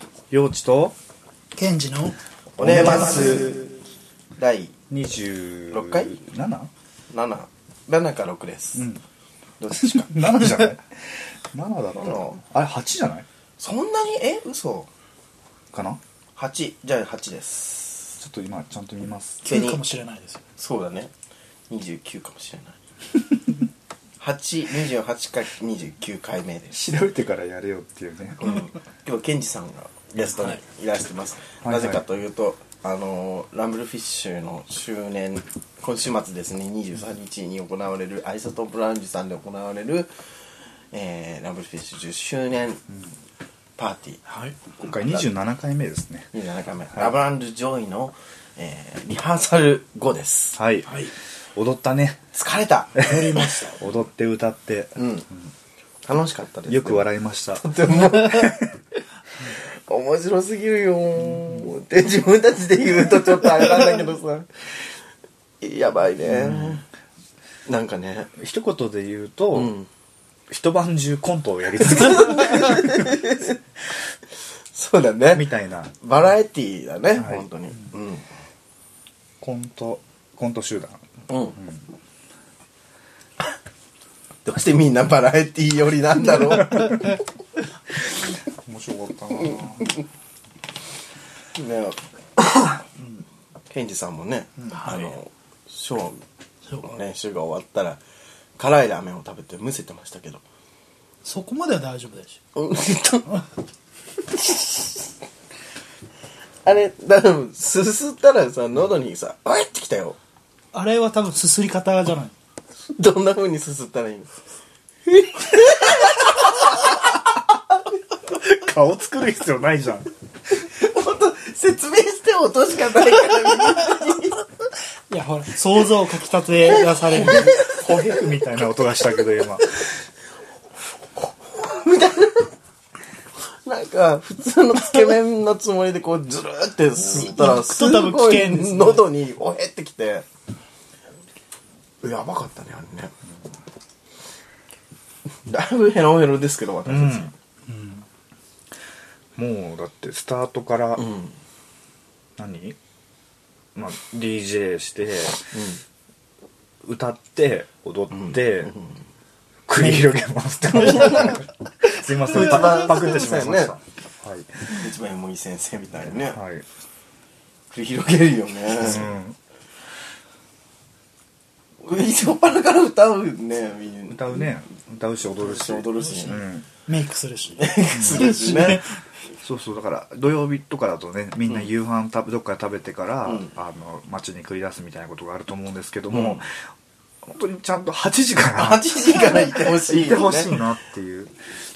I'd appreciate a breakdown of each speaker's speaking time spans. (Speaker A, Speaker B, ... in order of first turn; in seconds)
Speaker A: 0.3-0.9, 2.6-3.5, 4.9-6.7, 9.8-13.2, 15.7-16.0, 18.2-19.4, 26.7-28.6, 31.6-32.0, 44.8-46.3, 50.5-51.0, 51.5-52.2, 53.0-53.2, 53.8-55.0, 56.7-57.6, 66.3-66.8, 68.4-69.7, 70.5-73.2, 75.3-75.9, 77.2-77.4, 79.4-81.0, 88.5-89.9, 118.3-120.1, 127.4-129.7, 146.8-147.3, 149.3-151.0, 152.4-152.8, 153.7-155.5, 156.8-158.7, 159.7-164.7, 166.1-166.6, 168.8-169.4, 174.1-176.7, 177.9-178.3, 179.4-186.7, 187.2-191.3
Speaker B: 1.6-2.2, 19.4-20.4, 53.0-53.8, 94.8-95.1, 101.2-102.4, 110.7-112.3, 125.1-127.7, 137.2-139.1, 147.7-148.0, 176.9-178.9
Speaker C: 2.6-3.6, 4.4-4.7, 5.7-6.2, 7.1-8.9, 9.6-10.3, 11.9-12.4, 13.6-14.9, 16.4-18.2, 19.5-19.8, 20.6-21.1, 21.7-22.8, 24.2-26.8, 28.4-40.1, 40.9-42.8, 43.8-45.2, 46.3-50.6, 52.3-53.1, 55.0-55.3, 56.0-58.7, 59.5-64.5, 65.6-66.8, 67.7-68.3, 69.5-69.9, 71.9-73.6, 74.7-78.2, 81.3-81.6, 84.4-87.2, 89.5-89.9, 91.5-92.8, 93.7-96.2, 96.8-98.0, 98.6-100.4, 102.5-103.3, 104.3-105.0, 106.6-110.2, 112.9-114.3, 115.0-117.4, 120.6-124.4, 127.2-127.8, 131.5-132.5, 133.6-140.2, 142.0-143.1, 145.4-147.3, 151.0-151.3, 155.5-155.8, 158.1-158.9, 162.2-163.7, 164.7-166.4, 167.7-169.1, 171.8-174.4, 175.4-176.4, 177.6-178.8, 186.1-186.4, 188.6-190.5